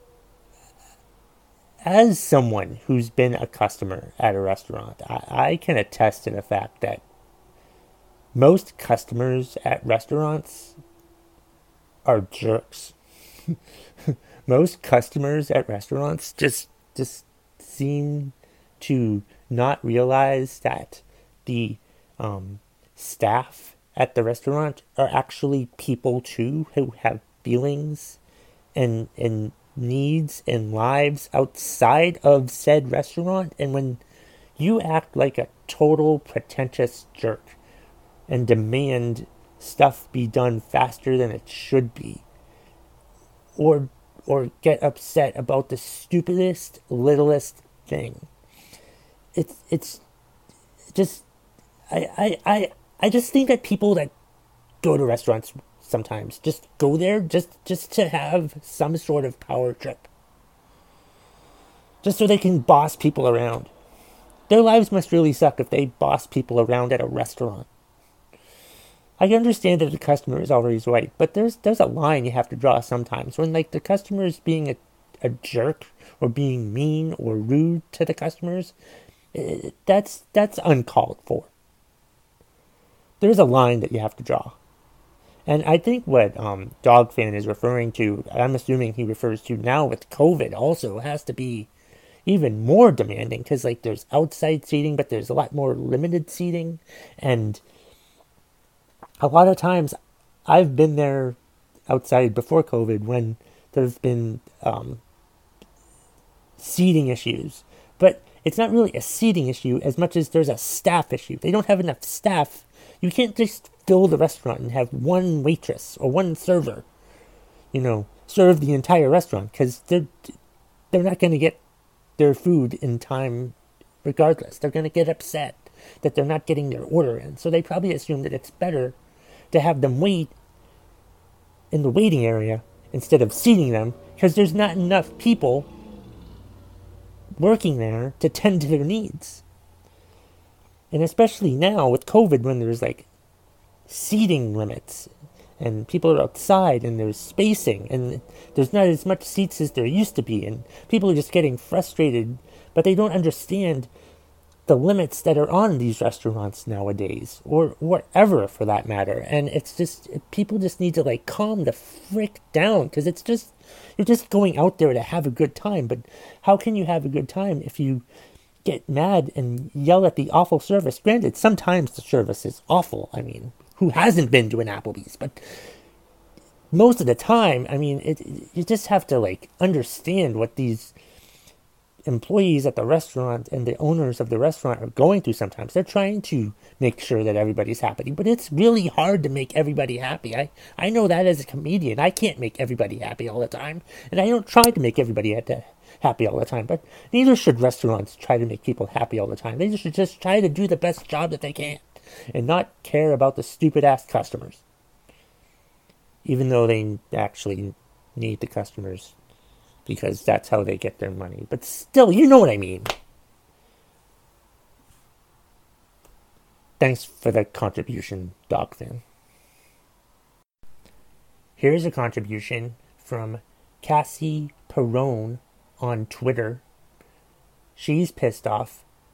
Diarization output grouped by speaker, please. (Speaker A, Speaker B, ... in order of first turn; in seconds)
Speaker A: 1.8-7.0, 8.3-10.8, 12.0-12.9, 14.0-28.2, 28.7-34.0, 34.6-37.6, 38.3-42.2, 43.6-48.3, 49.3-50.0, 50.9-51.2, 51.9-54.1, 54.8-60.1, 62.0-63.7, 64.5-67.7, 69.2-78.7, 79.3-81.5, 83.2-84.5, 85.5-91.7, 92.2-97.6, 99.2-99.9, 100.5-105.0, 106.6-116.8, 117.7-120.3, 120.9-121.6, 122.2-129.0, 129.5-130.3, 131.7-135.7, 137.4-139.4, 140.9-143.1, 143.9-153.9, 154.7-168.0, 168.6-175.4, 176.7-180.9, 182.1-204.6, 206.2-209.1, 209.8-212.9, 216.8-219.0, 221.6-226.6, 227.8-228.8